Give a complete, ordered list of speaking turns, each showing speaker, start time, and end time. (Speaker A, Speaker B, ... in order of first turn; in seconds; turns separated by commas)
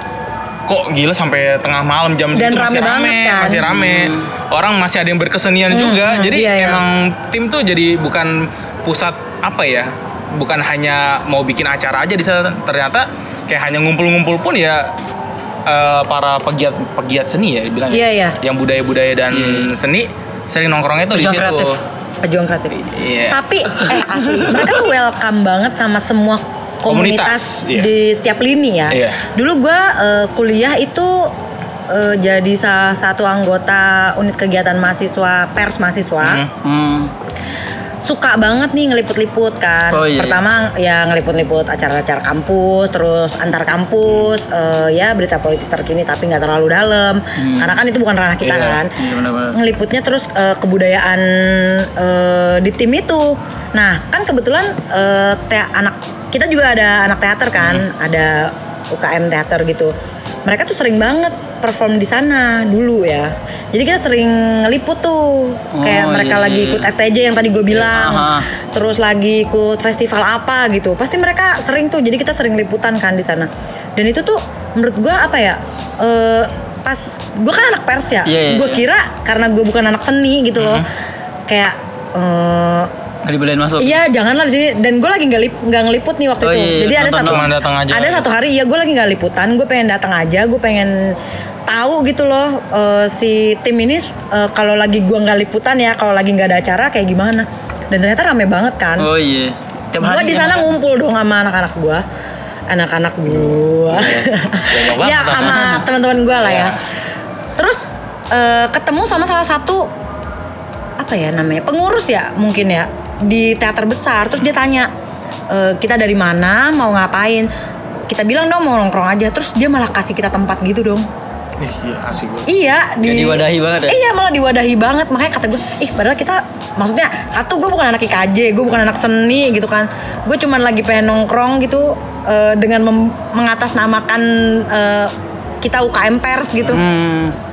Speaker A: 0.7-14.9, Speaker B: 2.3-3.7, Speaker C: 3.7-4.3, Speaker B: 5.7-6.8, Speaker A: 15.7-21.8, Speaker B: 17.9-18.4, Speaker C: 19.3-19.7, Speaker C: 21.1-21.7, Speaker B: 22.2-31.3, Speaker A: 22.8-23.4, Speaker A: 26.9-27.9, Speaker A: 28.9-29.2, Speaker B: 31.9-36.5, Speaker A: 36.2-36.5, Speaker C: 36.6-37.1, Speaker B: 38.0-49.0, Speaker C: 39.9-40.4, Speaker A: 44.1-44.3, Speaker C: 47.4-47.8, Speaker A: 48.4-48.8, Speaker C: 49.0-49.6, Speaker B: 49.5-59.9, Speaker B: 60.5-80.9, Speaker C: 65.7-66.9, Speaker C: 67.7-68.5, Speaker C: 78.2-78.9, Speaker A: 80.6-80.9, Speaker B: 81.5-82.9, Speaker C: 83.2-84.0, Speaker B: 83.8-91.1, Speaker C: 86.4-87.5, Speaker A: 87.2-88.2, Speaker B: 91.7-99.1, Speaker C: 99.0-100.7, Speaker B: 100.0-102.0, Speaker B: 102.7-106.8, Speaker C: 103.9-104.2, Speaker A: 104.5-105.8, Speaker C: 105.3-105.8, Speaker C: 106.4-106.8, Speaker B: 107.6-109.9, Speaker B: 111.0-114.9, Speaker B: 115.5-117.5, Speaker B: 118.1-121.1, Speaker A: 121.6-122.5, Speaker B: 122.5-136.8, Speaker C: 123.0-124.0, Speaker C: 136.6-137.4